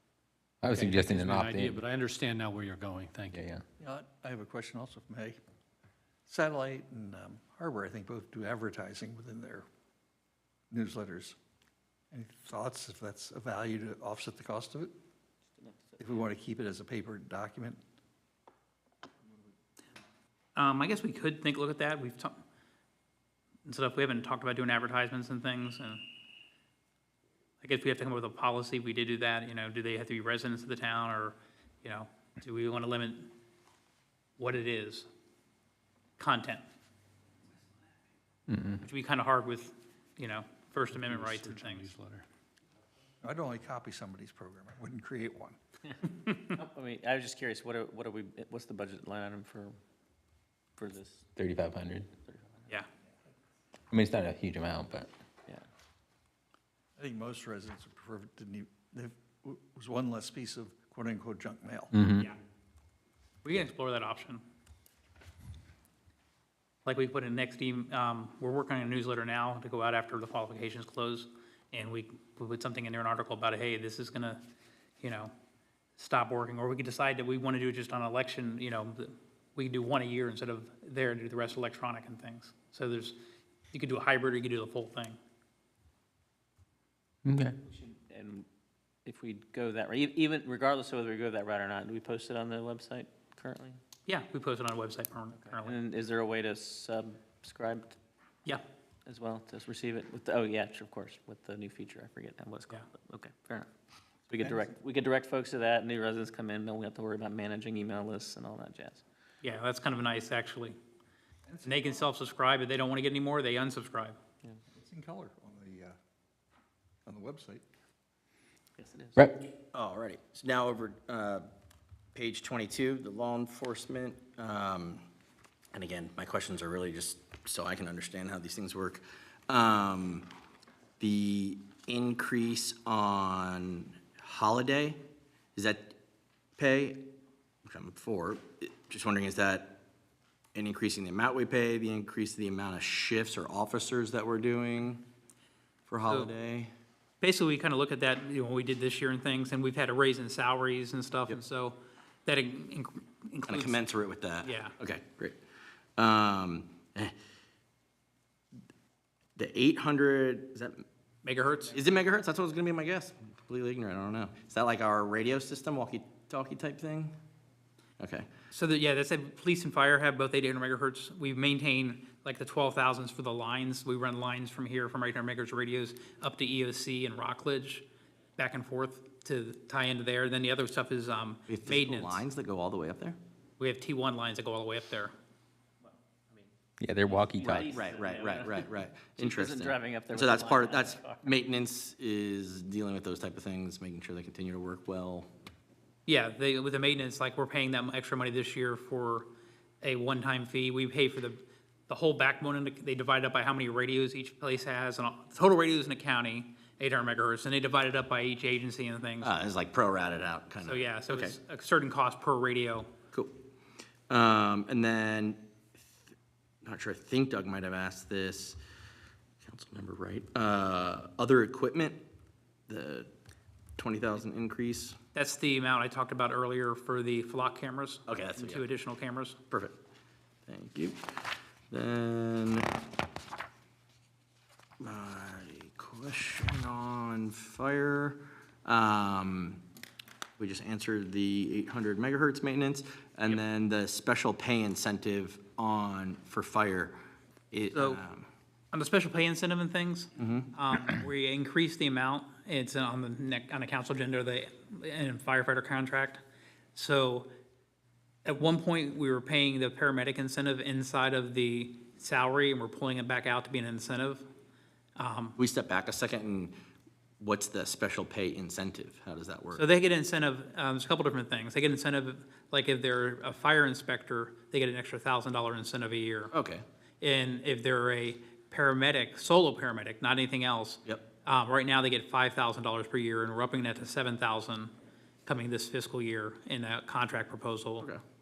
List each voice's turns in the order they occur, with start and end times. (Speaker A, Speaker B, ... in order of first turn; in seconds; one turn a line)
Speaker A: 0.6-1.8
Speaker B: 0.7-3.4
Speaker A: 3.3-3.6
Speaker C: 3.8-5.4
Speaker C: 6.3-9.7
Speaker C: 10.7-11.3
Speaker C: 12.1-14.9
Speaker C: 16.0-17.8
Speaker D: 20.6-22.4
Speaker D: 23.6-26.0
Speaker D: 27.6-33.3
Speaker D: 34.4-35.1
Speaker D: 36.2-36.6
Speaker A: 38.5-38.8
Speaker D: 38.8-41.9
Speaker B: 40.9-42.2
Speaker C: 43.2-45.6
Speaker D: 46.2-46.5
Speaker E: 46.5-49.8
Speaker E: 50.8-51.3
Speaker A: 51.4-52.1
Speaker E: 52.3-52.6
Speaker A: 53.9-55.1
Speaker C: 57.0-61.9
Speaker A: 61.9-62.3
Speaker D: 63.4-64.4
Speaker D: 66.8-74.4
Speaker D: 75.0-75.3
Speaker D: 76.0-83.2
Speaker D: 83.7-85.2
Speaker A: 87.2-87.6
Speaker E: 87.7-88.5
Speaker E: 89.0-93.8
Speaker D: 94.0-95.8
Speaker E: 95.6-98.0
Speaker E: 99.0-103.7
Speaker E: 104.3-109.0
Speaker C: 104.4-104.7
Speaker D: 109.4-110.8
Speaker C: 111.5-111.9
Speaker D: 111.6-114.2
Speaker C: 114.7-116.0
Speaker C: 117.0-117.6
Speaker E: 118.8-119.2
Speaker F: 119.7-121.5
Speaker F: 122.1-125.0
Speaker F: 125.7-130.3
Speaker F: 131.0-135.0
Speaker F: 135.5-135.9
Speaker F: 136.6-137.1
Speaker F: 137.6-139.8
Speaker F: 140.5-145.0
Speaker F: 145.9-146.7
Speaker D: 146.0-146.3
Speaker D: 147.2-153.8
Speaker F: 153.5-155.4
Speaker D: 154.4-154.7
Speaker F: 156.0-157.1
Speaker F: 159.4-160.8
Speaker D: 161.2-161.8
Speaker F: 161.7-167.1
Speaker F: 168.0-168.3
Speaker D: 168.5-182.2
Speaker F: 181.5-183.2
Speaker D: 183.6-185.1
Speaker A: 186.8-187.8
Speaker E: 187.1-191.2
Speaker F: 187.4-195.3
Speaker D: 196.1-199.3
Speaker D: 199.8-209.3
Speaker F: 209.2-211.3
Speaker D: 210.6-212.9
Speaker F: 213.1-213.4
Speaker F: 214.1-215.4
Speaker F: 216.6-218.6
Speaker F: 219.4-222.0
Speaker F: 222.7-223.1
Speaker F: 223.8-225.0
Speaker D: 225.1-229.4
Speaker F: 228.1-228.6
Speaker F: 229.5-229.8
Speaker F: 230.4-232.7
Speaker F: 234.8-239.6
Speaker F: 240.4-247.0
Speaker F: 247.5-248.2
Speaker D: 247.7-248.0
Speaker D: 248.7-256.2
Speaker F: 250.2-250.5
Speaker D: 256.7-257.3
Speaker D: 258.2-264.3
Speaker D: 264.9-265.4
Speaker F: 265.4-266.5
Speaker F: 267.2-269.6
Speaker D: 269.5-276.3
Speaker F: 276.3-276.6
Speaker D: 277.0-284.7
Speaker D: 285.2-287.9